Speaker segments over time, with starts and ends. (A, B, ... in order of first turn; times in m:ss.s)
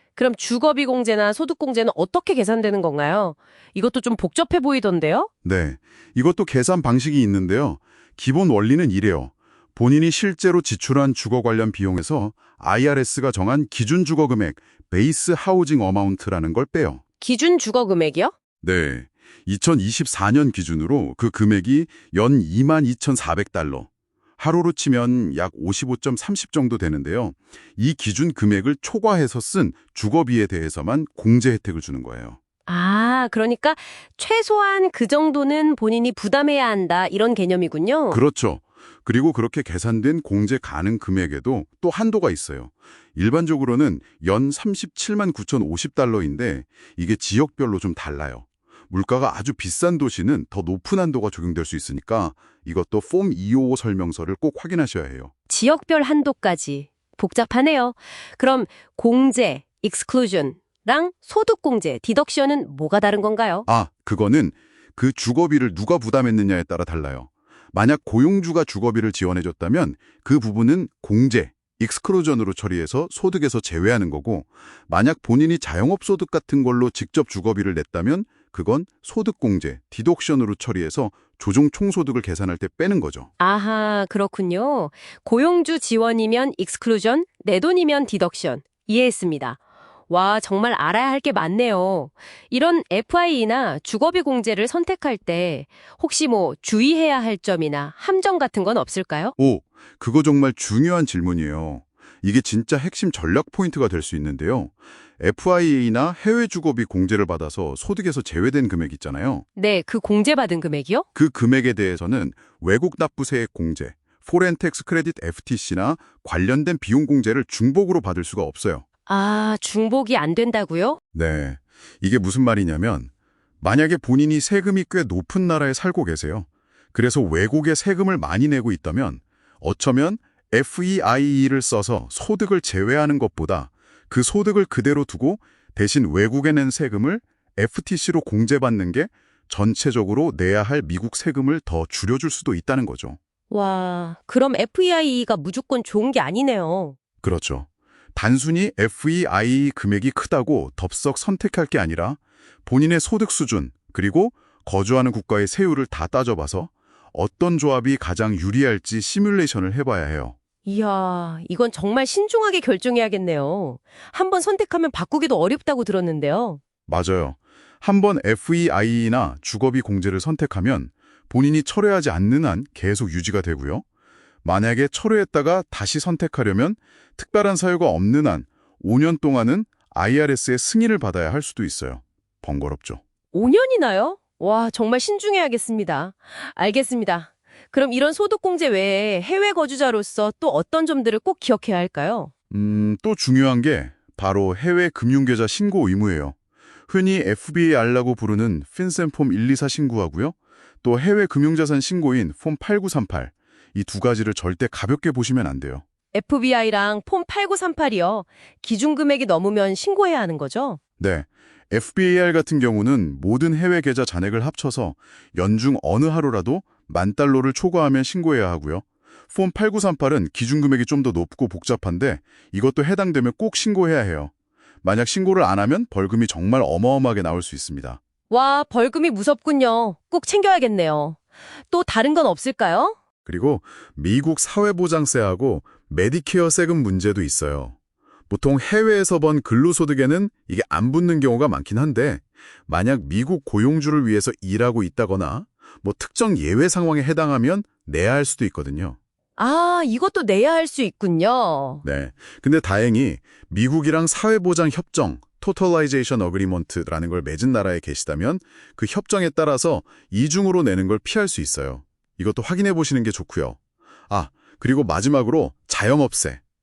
0:00.2-0:05.3 A
0:05.4-0:17.0 B
0:17.2-0:18.3 A
0:18.6-0:32.4 B
0:32.7-0:38.2 A
0:38.1-0:55.3 B
0:55.5-1:03.7 A
1:03.7-1:23.3 B
1:23.4-1:39.3 A
1:39.4-1:49.4 B
1:49.6-1:51.1 A
1:51.2-1:58.9 B
1:59.1-2:01.0 A
2:01.1-2:03.1 B
2:03.6-2:23.2 B
2:23.5-2:27.0 A
2:27.2-2:40.4 B
2:40.6-2:46.6 A
2:46.9-2:53.8 B
2:54.4-3:03.0 B
3:03.3-3:12.3 A
3:12.5-3:16.4 B
3:16.9-3:25.8 B
3:26.1-3:30.8 A
3:31.0-3:44.3 B
3:44.8-3:48.0 B
3:48.3-3:53.0 A
3:53.3-3:57.8 B
3:58.3-4:09.0 B
4:09.4-4:11.8 A
4:11.8-4:23.6 B
4:24.1-4:26.4 B